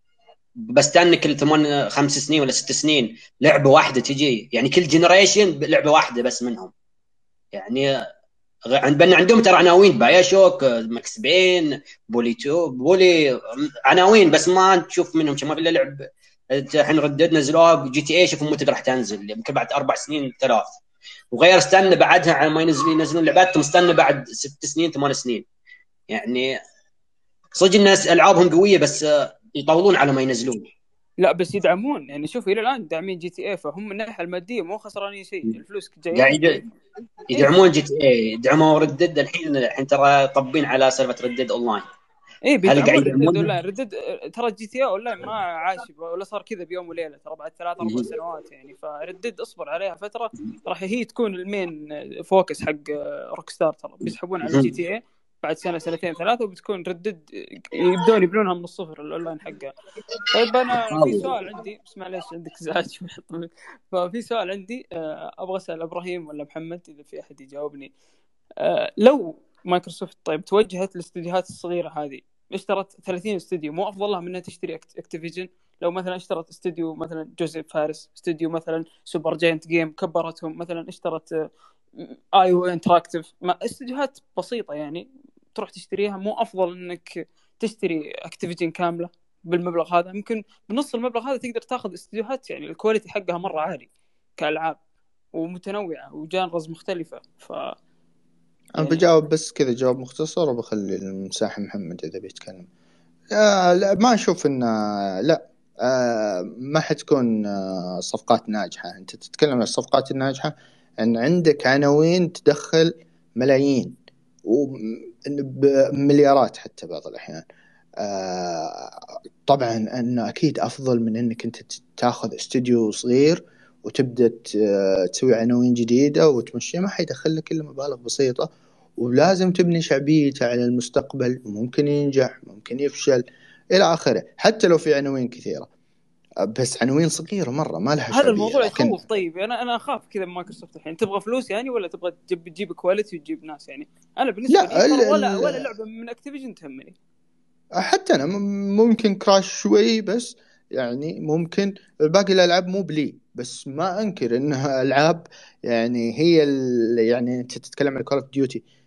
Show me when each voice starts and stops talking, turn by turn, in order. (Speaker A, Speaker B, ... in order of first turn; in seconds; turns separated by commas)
Speaker A: 0.7-6.7, Speaker A: 7.5-7.9, Speaker A: 8.7-13.2, Speaker A: 13.8-20.8, Speaker A: 21.3-25.4, Speaker A: 26.1-26.5, Speaker A: 27.5-30.7, Speaker B: 31.2-36.7, Speaker A: 36.1-36.6, Speaker A: 37.3-41.9, Speaker B: 42.5-51.7, Speaker A: 42.6-43.5, Speaker B: 52.2-59.7, Speaker B: 60.3-67.9, Speaker A: 60.9-61.5, Speaker B: 68.6-81.3, Speaker B: 82.3-87.1, Speaker B: 87.6-94.8, Speaker B: 95.4-97.7, Speaker C: 98.8-102.7, Speaker B: 98.8-99.0, Speaker C: 103.3-113.9, Speaker C: 114.5-117.5, Speaker C: 118.0-118.9, Speaker C: 119.5-135.7, Speaker C: 136.4-139.1, Speaker B: 138.1-146.9, Speaker C: 144.5-145.7, Speaker C: 147.8-158.6